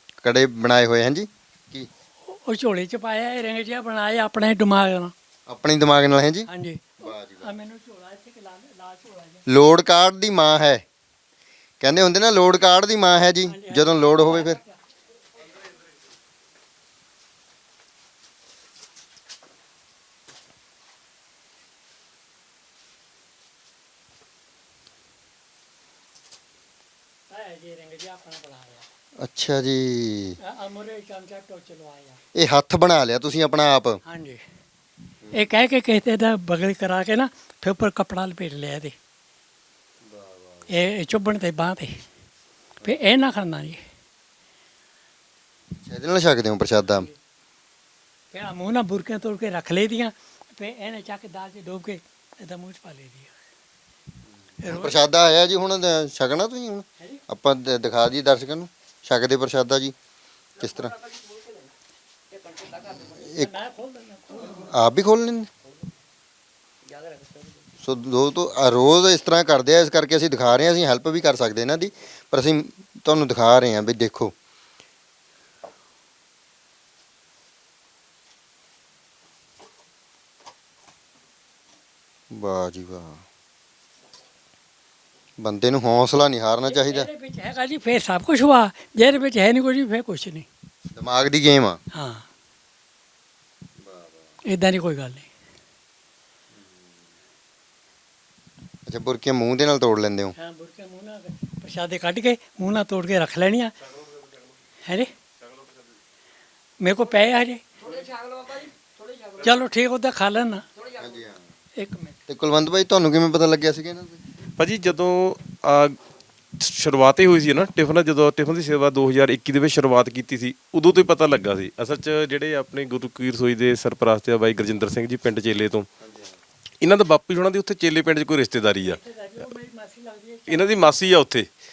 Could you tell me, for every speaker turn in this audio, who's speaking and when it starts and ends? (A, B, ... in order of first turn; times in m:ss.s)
0:00.2-0:01.9 A
0:02.3-0:05.1 B
0:05.5-0:06.5 A
0:06.5-0:09.4 B
0:07.0-0:07.5 A
0:09.5-0:10.8 A
0:11.8-0:14.6 A
0:13.4-0:14.8 B
0:27.3-0:28.8 B
0:29.2-0:30.4 A
0:30.4-0:32.2 B
0:32.3-0:34.0 A
0:34.0-0:34.4 B
0:35.2-0:35.5 A
0:35.3-0:39.0 B
0:40.0-0:40.7 A
0:40.7-0:42.0 B
0:42.8-0:43.8 B
0:45.8-0:47.1 A
0:48.3-0:53.3 B
0:54.5-0:59.9 A
0:54.6-0:55.0 B
1:00.6-1:01.0 A
1:02.7-1:03.5 A
1:03.2-1:04.7 B
1:04.4-1:05.5 A
1:07.7-1:14.3 A
1:22.3-1:23.2 A
1:25.4-1:27.1 A
1:26.6-1:30.5 B
1:30.9-1:31.8 A
1:31.9-1:32.2 B
1:33.8-1:34.3 A
1:34.4-1:35.3 B
1:36.5-1:37.0 A
1:38.8-1:40.3 A
1:40.4-1:43.7 B
1:44.8-1:45.1 B
1:46.8-1:47.6 B
1:49.4-1:50.7 B
1:50.9-1:51.4 A
1:51.8-1:52.2 B
1:52.3-1:54.2 A
1:54.6-1:56.0 C
1:56.6-2:05.9 C
2:06.0-2:06.4 A
2:06.8-2:09.0 C
2:08.8-2:11.2 B
2:10.5-2:11.5 C